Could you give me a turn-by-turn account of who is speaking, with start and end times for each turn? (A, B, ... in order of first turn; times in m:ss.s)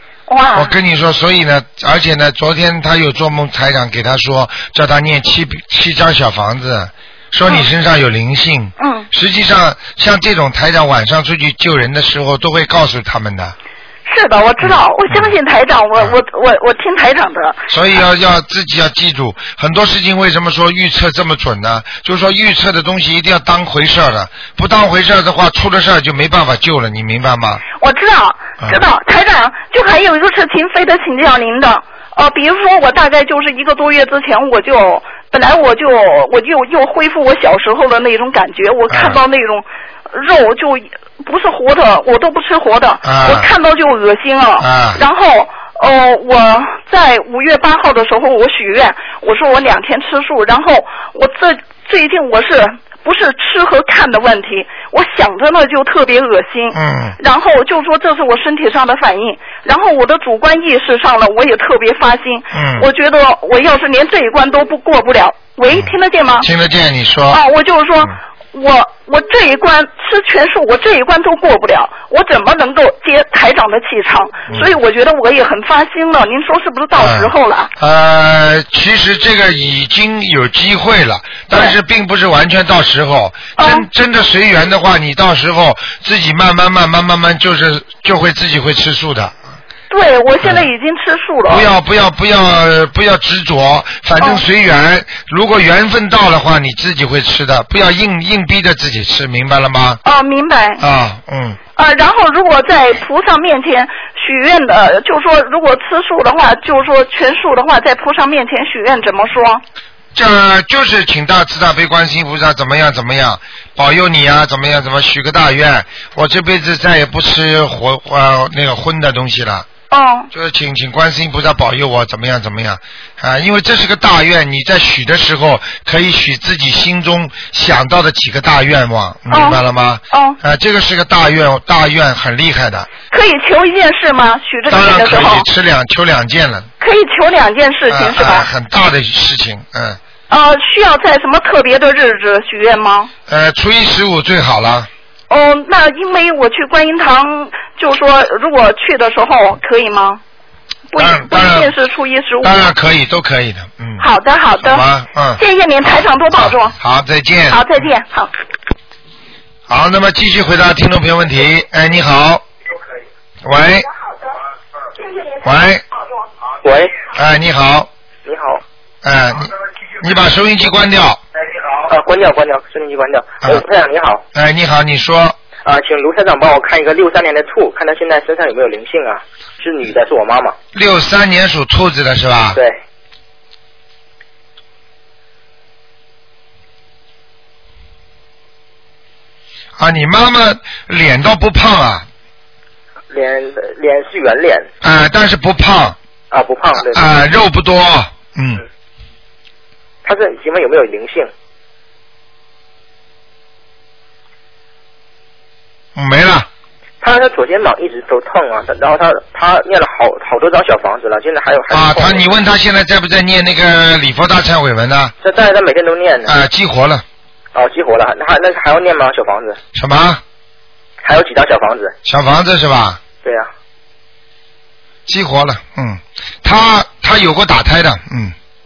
0:00.3-0:00.7 A
0:00.6-0:13.6 B
0:08.8-0:09.1 A
0:14.1-0:18.0 A
0:14.6-0:15.3 B
0:17.7-0:27.6 B
0:27.8-1:06.5 A
0:38.9-0:39.2 B
0:43.0-0:43.5 B
0:44.6-0:45.0 B
0:56.7-0:57.2 B
1:02.5-1:02.9 B
1:05.7-1:07.4 B
1:07.3-1:17.7 A
1:17.0-1:29.4 B
1:21.5-1:21.8 A
1:23.6-1:23.9 A
1:29.9-1:31.7 A
1:31.5-1:40.0 B
1:34.2-1:34.4 A
1:40.0-1:40.8 A
1:40.8-1:41.6 B
1:41.8-1:49.6 A
1:50.1-1:59.7 B
1:59.9-2:00.3 A
2:00.3-2:12.9 B
2:09.3-2:10.4 A
2:13.1-2:15.5 A
2:14.7-2:16.7 B
2:16.8-2:18.5 A
2:17.9-2:20.0 B
2:20.3-2:23.1 A
2:23.3-2:24.9 B
2:25.3-2:30.2 A
2:30.9-2:32.7 A
2:31.0-2:31.7 B
2:32.4-2:34.1 B
2:34.0-2:34.9 A
2:34.6-2:37.7 B
2:35.4-2:36.8 A
2:37.5-2:38.3 A
2:39.7-2:42.4 B
2:43.4-2:43.9 B
2:45.4-2:45.8 B
2:46.6-2:47.0 C
2:47.1-2:47.9 B
2:48.3-2:48.6 C
2:49.0-2:51.2 B
2:51.8-2:54.2 C
2:54.3-2:55.4 B
2:55.6-3:00.6 C
3:00.7-3:02.6 B
3:09.8-3:12.1 B
3:13.1-3:14.7 C
3:14.8-3:16.0 B
3:16.3-3:17.1 C
3:16.8-3:18.6 B
3:20.0-3:21.3 C
3:26.0-3:26.5 B
3:27.0-3:32.3 C
3:31.7-3:35.1 B
3:35.2-3:36.3 C
3:36.3-3:37.0 B
3:37.5-3:39.6 C
3:39.8-3:40.2 B
3:41.0-3:42.0 C
3:42.0-3:43.0 B
3:43.2-3:43.5 C
3:45.1-3:48.4 B